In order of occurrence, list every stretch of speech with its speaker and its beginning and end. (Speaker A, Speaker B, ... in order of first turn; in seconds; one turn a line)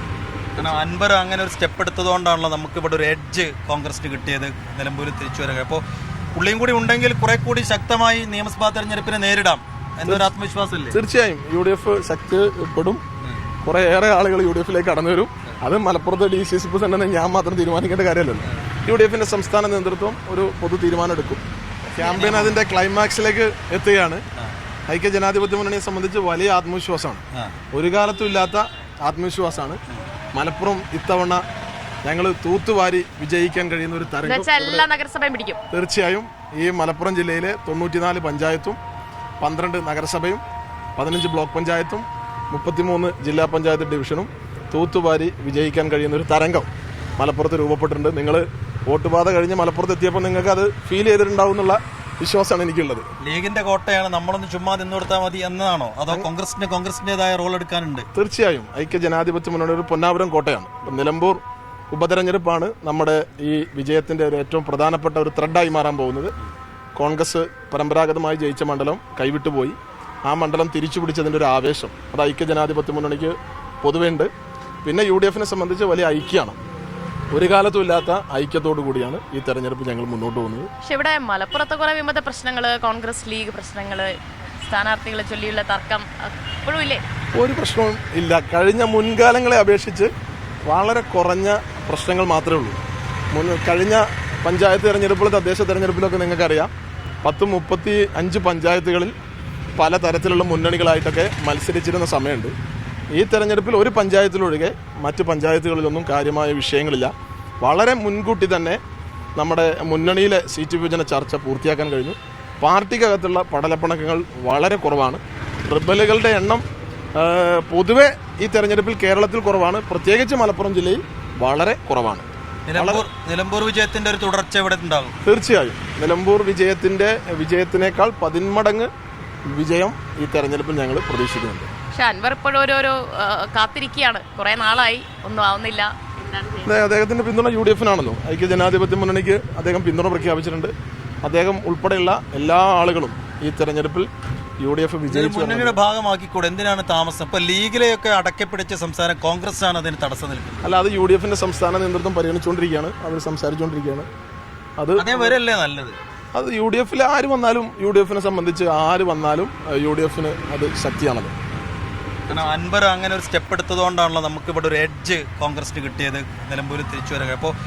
Speaker A: 0.6-5.8
Speaker A: 6.3-11.0
Speaker B: 10.9-13.0
Speaker B: 13.6-21.4
Speaker B: 21.9-24.2
Speaker A: 22.0-22.6
Speaker B: 24.9-29.8
Speaker A: 27.3-27.6
Speaker B: 30.3-31.4
Speaker B: 32.0-34.9
Speaker C: 34.2-35.6
Speaker B: 35.7-38.8
Speaker B: 39.4-40.4
Speaker B: 41.0-53.1
Speaker A: 53.2-58.1
Speaker B: 58.1-66.3
Speaker B: 67.0-74.3
Speaker B: 74.8-76.6
Speaker B: 77.3-80.7
Speaker C: 80.8-87.0
Speaker B: 87.3-90.1
Speaker B: 90.7-92.8
Speaker B: 93.3-96.7
Speaker B: 97.2-99.1
Speaker B: 99.8-102.5
Speaker B: 103.1-108.8
Speaker B: 109.3-123.0
Speaker A: 122.7-125.2
Speaker B: 125.2-128.9
Speaker B: 129.5-131.7
Speaker C: 131.9-136.7
Speaker B: 136.6-144.1
Speaker B: 144.6-145.8
Speaker A: 145.1-150.7
Speaker B: 150.6-154.1
Speaker B: 154.8-155.4
Speaker A: 154.9-156.0
Speaker B: 156.3-161.3
Speaker A: 162.3-167.5